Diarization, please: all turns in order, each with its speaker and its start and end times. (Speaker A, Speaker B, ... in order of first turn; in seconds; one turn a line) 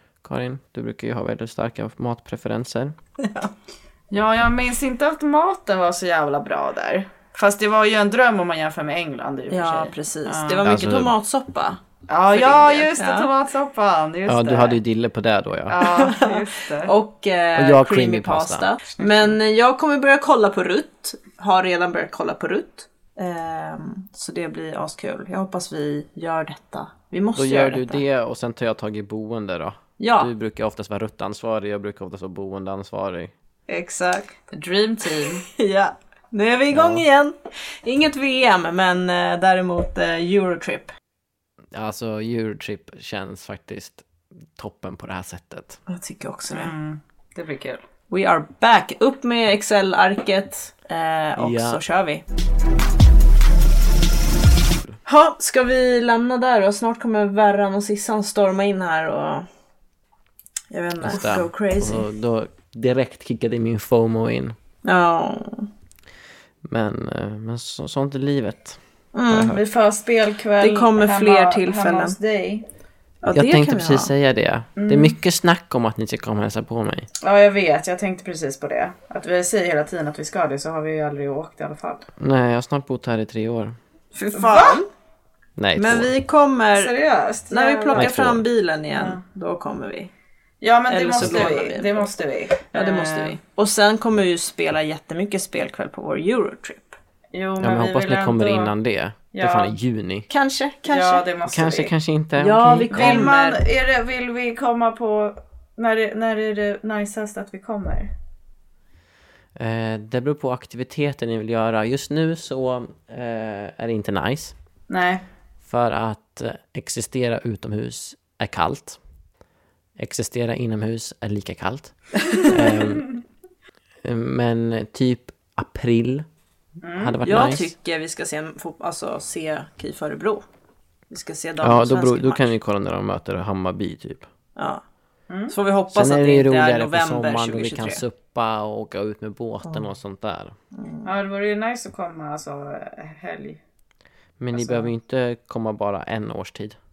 Speaker A: 0.2-3.0
Speaker B: 3.2-3.5
Speaker C: 4.1-10.7
Speaker B: 9.5-11.8
Speaker A: 10.6-11.2
Speaker C: 12.1-14.8
Speaker B: 12.3-13.3
Speaker A: 14.3-15.8
Speaker C: 15.7-16.9
Speaker B: 15.8-28.0
Speaker A: 17.5-18.6
Speaker C: 19.0-19.3
Speaker A: 27.3-33.3
Speaker B: 30.0-30.3
Speaker B: 33.7-40.9
Speaker C: 34.5-35.4
Speaker A: 36.7-37.0
Speaker A: 41.7-45.8
Speaker B: 45.9-46.7
Speaker C: 46.5-47.8
Speaker B: 48.1-52.2
Speaker A: 51.4-51.8
Speaker B: 55.0-59.5
Speaker B: 60.7-62.0
Speaker A: 61.0-64.5
Speaker B: 64.8-65.7
Speaker A: 66.6-68.8
Speaker B: 69.1-69.6
Speaker A: 69.3-69.6
Speaker C: 69.5-72.7
Speaker B: 70.6-72.2
Speaker B: 73.2-74.1
Speaker A: 73.3-77.1
Speaker C: 74.8-75.2
Speaker C: 77.2-82.1
Speaker A: 82.2-83.8
Speaker B: 84.1-84.9
Speaker C: 84.3-84.8
Speaker A: 85.6-86.1
Speaker B: 85.8-86.9
Speaker C: 86.7-88.1
Speaker B: 87.5-90.1
Speaker A: 87.9-88.4
Speaker C: 88.9-89.2
Speaker C: 90.6-93.4
Speaker B: 90.9-92.1
Speaker B: 92.7-97.0
Speaker C: 97.3-98.7
Speaker A: 97.6-100.3
Speaker C: 99.3-99.8
Speaker B: 100.3-101.2
Speaker C: 100.8-101.9
Speaker A: 101.5-103.3
Speaker B: 102.3-103.6
Speaker C: 102.9-108.1
Speaker A: 109.5-114.5
Speaker C: 114.9-115.2
Speaker A: 115.6-119.0
Speaker A: 120.0-123.1
Speaker A: 124.0-126.2
Speaker C: 126.8-127.2
Speaker A: 127.0-127.7
Speaker B: 127.2-130.4
Speaker B: 131.1-132.5
Speaker A: 131.6-134.3
Speaker B: 134.6-134.8
Speaker B: 135.5-138.0
Speaker A: 135.9-140.6
Speaker B: 140.7-141.1
Speaker C: 141.0-143.6
Speaker A: 144.4-146.8